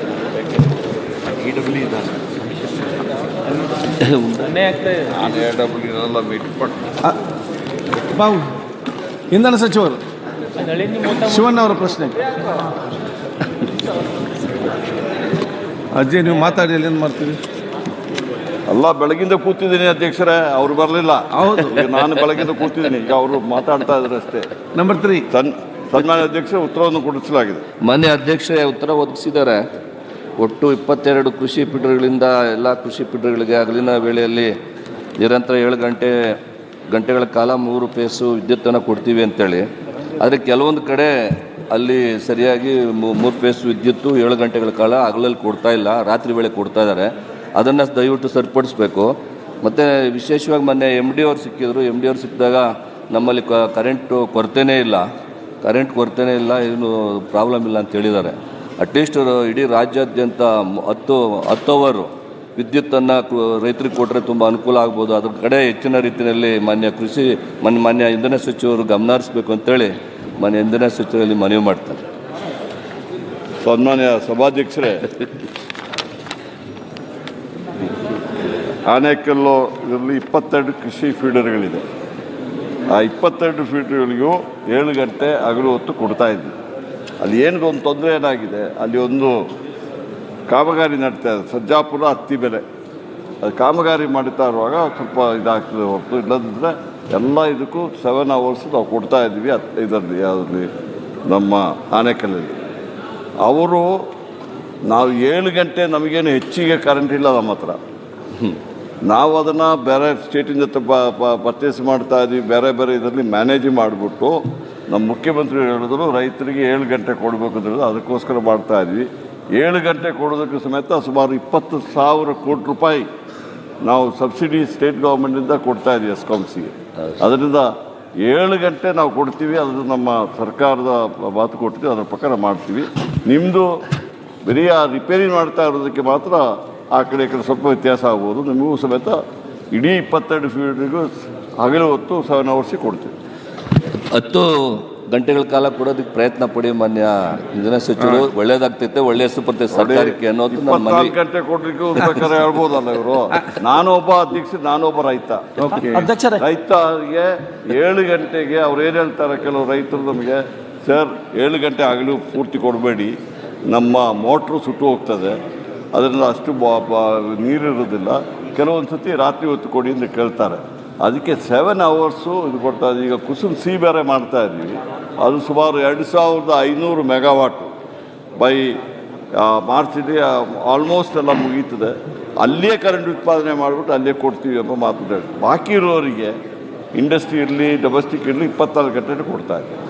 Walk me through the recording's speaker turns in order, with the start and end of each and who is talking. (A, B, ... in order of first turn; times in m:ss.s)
0:01.4-0:02.2 A
0:04.1-0:04.4 B
0:05.1-0:06.9 A
0:08.1-0:08.5 C
0:09.3-0:10.0 C
0:11.0-0:12.2 C
0:15.9-0:17.4 C
0:18.7-0:24.5 A
0:21.4-0:21.9 C
0:24.7-0:25.3 C
0:25.3-0:27.6 A
0:27.8-0:29.6 B
0:30.4-0:34.5 B
0:35.2-0:36.1 B
0:36.9-0:39.6 B
0:40.2-0:55.0 B
0:55.6-1:12.0 B
1:13.6-1:15.1 A
1:18.9-1:21.8 A
1:22.9-1:26.5 A
1:27.2-1:29.4 A
1:30.5-1:32.6 A
1:33.4-1:40.7 A
1:41.3-1:42.6 A
1:43.4-1:43.9 A
1:44.9-1:47.8 A
1:49.1-1:54.4 A
1:54.9-2:03.1 A
2:03.8-2:07.7 A
2:08.2-2:13.7 A
2:14.4-2:19.2 A
2:19.7-2:23.1 A
2:24.1-2:31.1 B
2:29.7-2:43.1 A
2:35.6-2:36.4 C
2:43.7-2:45.4 A
2:45.9-2:57.7 A
2:58.4-2:58.8 A
2:59.4-3:06.3 A
3:06.9-3:09.7 A